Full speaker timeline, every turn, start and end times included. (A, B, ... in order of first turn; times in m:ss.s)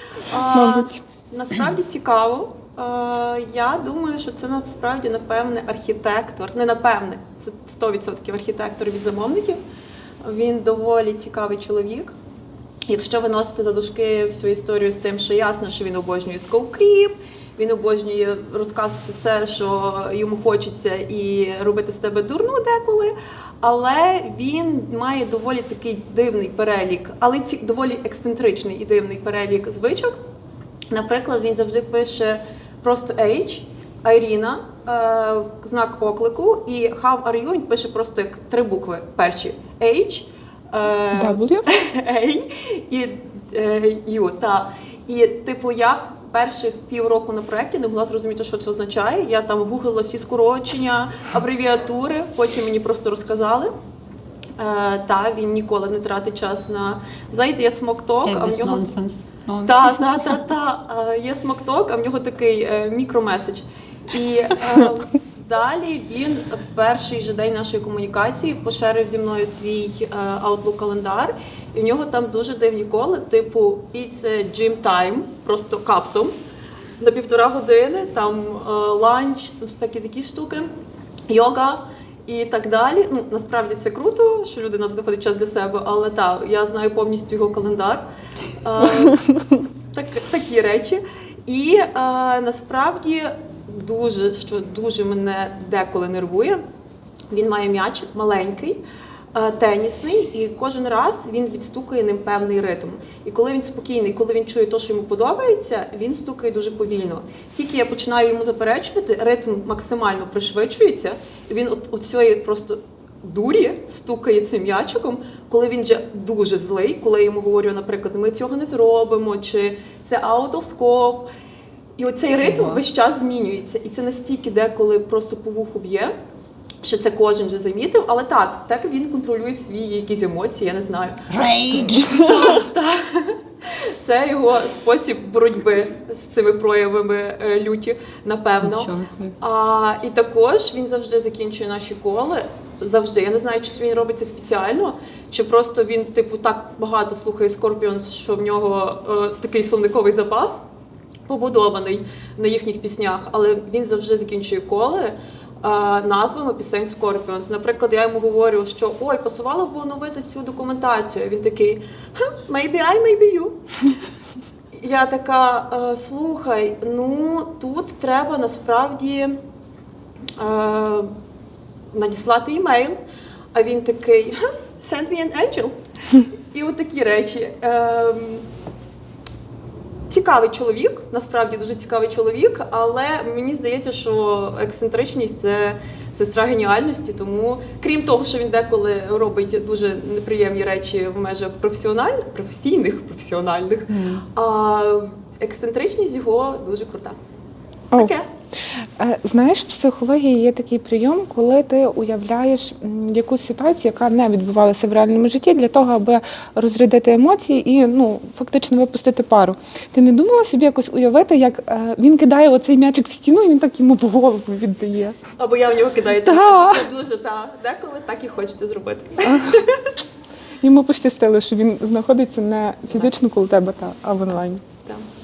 0:00.3-0:09.6 A
0:00.5-0:01.0 B
0:10.2-0:12.1 A
0:12.9-0:30.2 A
0:30.9-0:53.7 A
0:41.1-0:41.6 B
0:54.6-0:58.8 A
0:58.2-1:00.5 C
0:59.6-1:16.4 A
1:17.0-1:20.7 A
1:21.3-1:28.1 A
1:28.6-1:29.2 A
1:29.9-1:36.6 A
1:37.3-1:38.8 A
1:39.3-2:01.3 A
2:02.0-2:06.1 A
2:02.4-2:02.8 C
2:06.8-2:11.2 A
2:11.3-2:12.2 C
2:12.2-2:18.9 A
2:18.6-2:19.3 C
2:19.4-2:30.6 A
2:31.3-2:43.6 A
2:44.8-2:49.4 A
2:50.4-2:51.1 A
2:51.9-2:53.0 A
2:53.5-2:55.8 A
2:56.5-2:58.5 A
3:00.1-3:17.2 A
3:13.9-3:14.2 C
3:17.9-3:18.2 A
3:19.0-3:35.2 B
3:35.4-3:39.8 A
3:36.2-3:36.9 B
3:39.2-3:39.6 B
3:40.6-3:44.6 B